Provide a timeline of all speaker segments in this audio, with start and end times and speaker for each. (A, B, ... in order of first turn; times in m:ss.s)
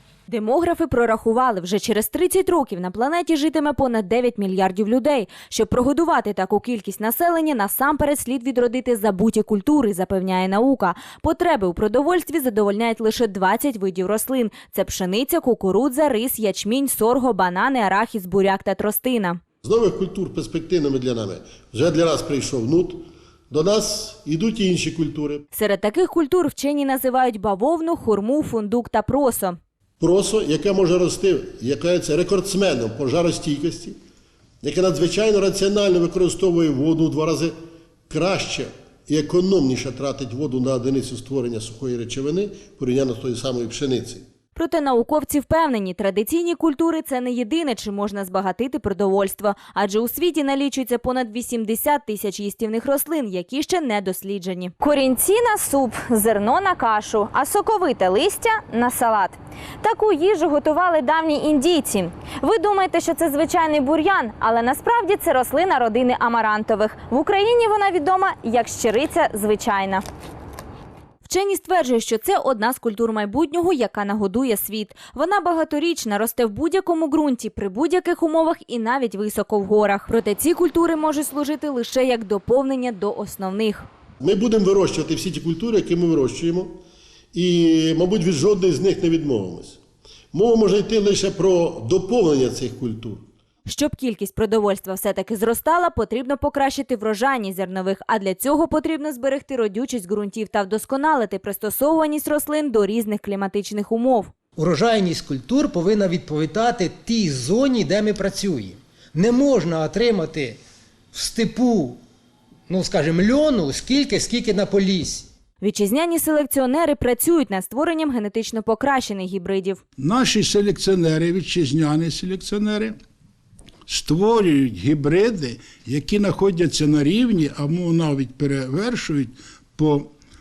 0:00.3-0:19.4 A
0:19.6-0:25.4 B
0:25.5-0:29.6 A
0:30.0-0:34.0 B
0:34.6-0:37.5 B
0:38.1-0:44.2 B
0:44.6-1:10.0 A
1:11.2-1:23.9 A
1:24.2-1:26.8 B
1:27.3-1:29.8 B
1:30.3-1:33.2 B
1:33.7-1:44.3 A
1:44.6-1:50.6 C
1:51.1-1:52.0 C
1:52.7-1:55.3 C
1:55.6-1:59.8 A
2:00.0-2:03.0 D
2:03.9-2:10.1 D